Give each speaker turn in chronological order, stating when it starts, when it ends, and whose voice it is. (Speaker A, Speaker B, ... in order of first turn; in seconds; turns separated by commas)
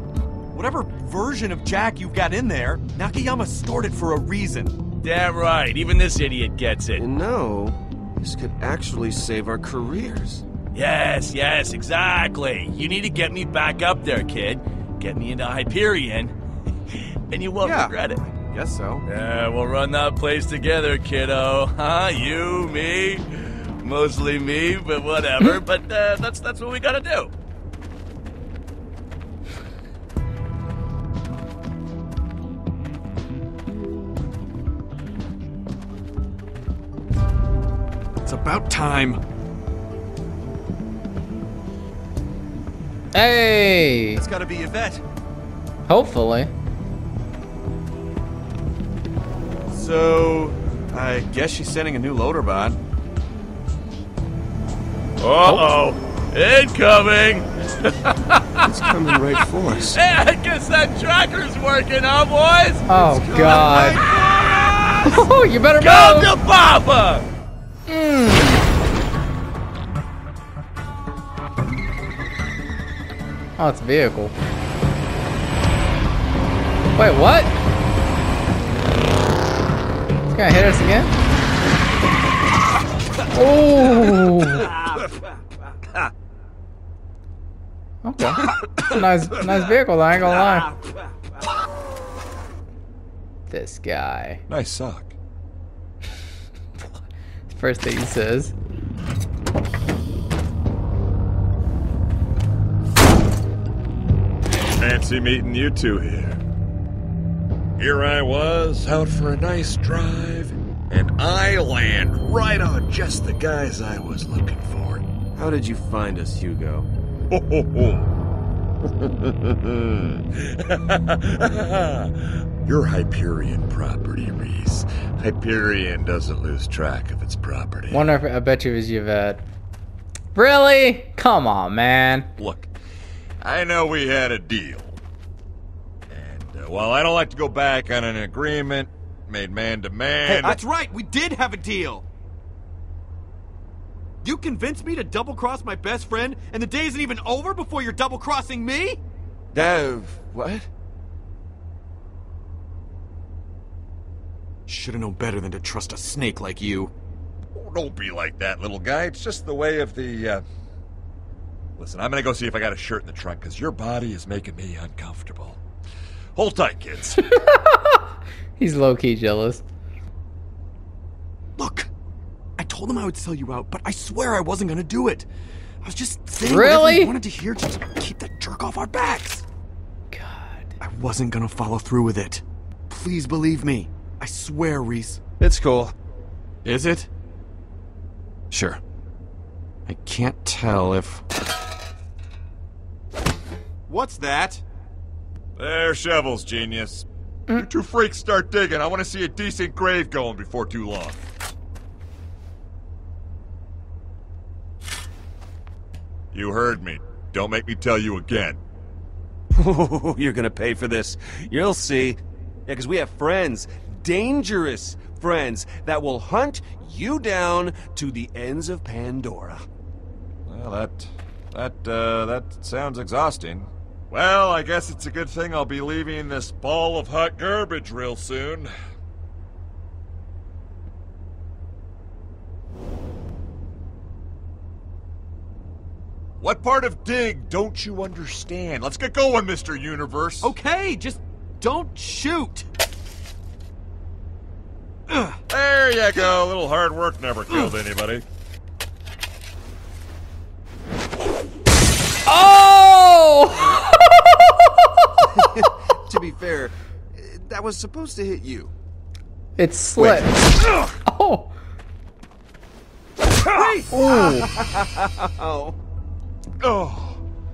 Speaker A: 0.5-4.8, Speaker B: 5.0-7.0, Speaker C: 7.0-10.4, Speaker B: 10.7-16.3, Speaker B: 17.3-18.2, Speaker A: 17.6-19.0, Speaker B: 19.1-27.3, Speaker A: 38.2-39.2, Speaker D: 43.1-44.2, Speaker A: 44.1-45.0, Speaker D: 45.9-46.5, Speaker A: 49.7-52.8, Speaker B: 55.2-58.6, Speaker D: 55.4-55.7, Speaker C: 58.6-60.0, Speaker B: 59.9-62.9, Speaker D: 62.9-64.0, Speaker A: 63.1-65.0, Speaker C: 63.4-63.8, Speaker B: 63.7-65.2, Speaker D: 65.0-66.3, Speaker B: 65.8-67.2, Speaker D: 67.9-68.6, Speaker D: 73.6-74.3, Speaker D: 77.0-77.5, Speaker D: 80.3-81.1, Speaker D: 83.3-84.7, Speaker D: 88.0-90.7, Speaker A: 90.4-90.7, Speaker D: 93.5-94.4, Speaker E: 94.5-95.1, Speaker D: 97.5-98.5, Speaker E: 104.8-106.4, Speaker E: 107.8-115.0, Speaker C: 115.3-116.9, Speaker E: 117.3-118.1, Speaker E: 120.3-128.1, Speaker D: 127.9-129.4, Speaker D: 130.3-132.3, Speaker E: 132.4-132.7, Speaker E: 133.4-135.0, Speaker E: 136.1-140.6, Speaker A: 140.3-142.0, Speaker A: 144.2-149.0, Speaker C: 149.5-150.7, Speaker A: 154.7-156.9, Speaker E: 157.5-160.4, Speaker E: 161.8-165.6, Speaker E: 166.3-167.2, Speaker D: 167.3-168.1, Speaker D: 168.6-169.6, Speaker A: 171.6-171.9, Speaker A: 172.6-175.3, Speaker A: 175.8-179.4, Speaker D: 176.4-177.2, Speaker D: 180.1-180.7, Speaker A: 180.8-185.2, Speaker C: 185.4-185.9, Speaker A: 186.6-187.1, Speaker C: 188.5-188.8, Speaker C: 189.9-191.2, Speaker A: 193.9-194.6, Speaker E: 195.6-201.2, Speaker E: 206.3-208.6, Speaker C: 209.5-219.6, Speaker E: 220.5-228.7, Speaker E: 236.4-240.5, Speaker A: 240.4-242.6, Speaker A: 245.1-245.4, Speaker E: 245.5-248.2, Speaker D: 252.2-254.9, Speaker C: 255.3-258.7, Speaker D: 259.6-260.4, Speaker D: 261.0-261.5, Speaker C: 263.5-264.4, Speaker A: 263.5-264.5, Speaker D: 263.9-264.5, Speaker C: 265.3-265.8, Speaker E: 266.6-267.2